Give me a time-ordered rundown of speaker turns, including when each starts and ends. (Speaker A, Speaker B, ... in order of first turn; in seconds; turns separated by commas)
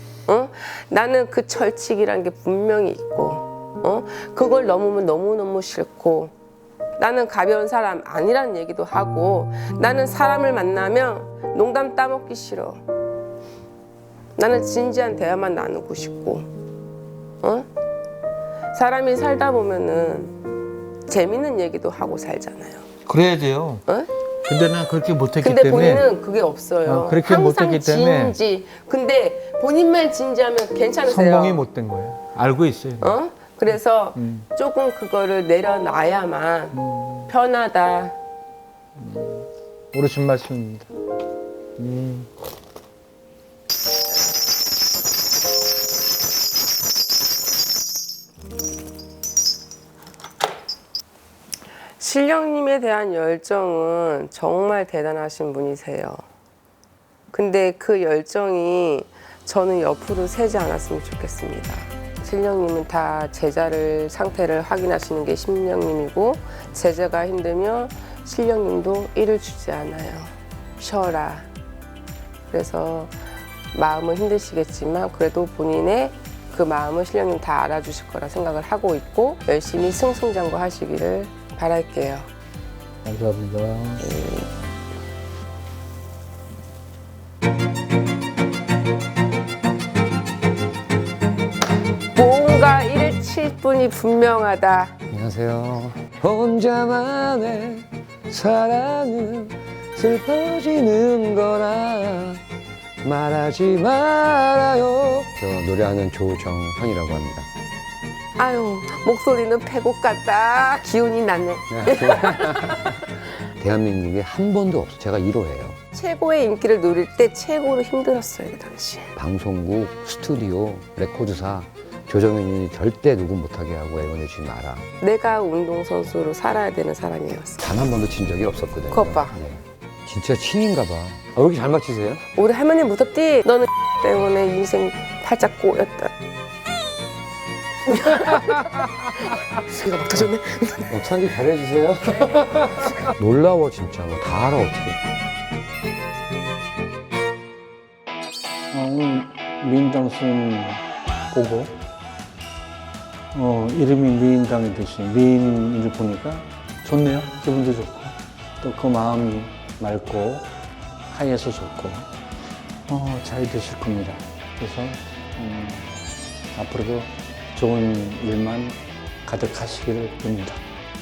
Speaker A: 0.3-6.3, Speaker A: 7.0-12.8, Speaker A: 14.4-16.5, Speaker A: 17.4-17.7, Speaker A: 18.7-20.4, Speaker A: 21.1-22.9, Speaker B: 23.1-23.8, Speaker B: 24.5-26.1, Speaker A: 25.4-31.6, Speaker B: 26.9-28.4, Speaker B: 31.1-33.2, Speaker A: 33.0-38.1, Speaker B: 34.2-34.5, Speaker B: 36.7-37.3, Speaker B: 39.0-40.9, Speaker B: 41.8-42.3, Speaker A: 52.0-56.2, Speaker A: 57.3-71.5, Speaker A: 72.5-73.1, Speaker A: 73.7-82.3, Speaker B: 83.0-84.1, Speaker A: 84.0-84.5, Speaker A: 92.2-95.0, Speaker C: 95.1-102.4, Speaker C: 103.0-107.5, Speaker A: 108.4-112.9, Speaker C: 111.7-113.0, Speaker C: 113.6-115.8, Speaker A: 115.9-119.1, Speaker C: 119.2-124.8, Speaker A: 125.0-127.6, Speaker C: 127.6-132.2, Speaker A: 128.9-129.4, Speaker A: 132.3-136.1, Speaker A: 137.9-140.9, Speaker C: 140.9-145.0, Speaker B: 148.7-151.8, Speaker B: 153.3-160.5, Speaker B: 161.1-162.1, Speaker B: 162.9-170.6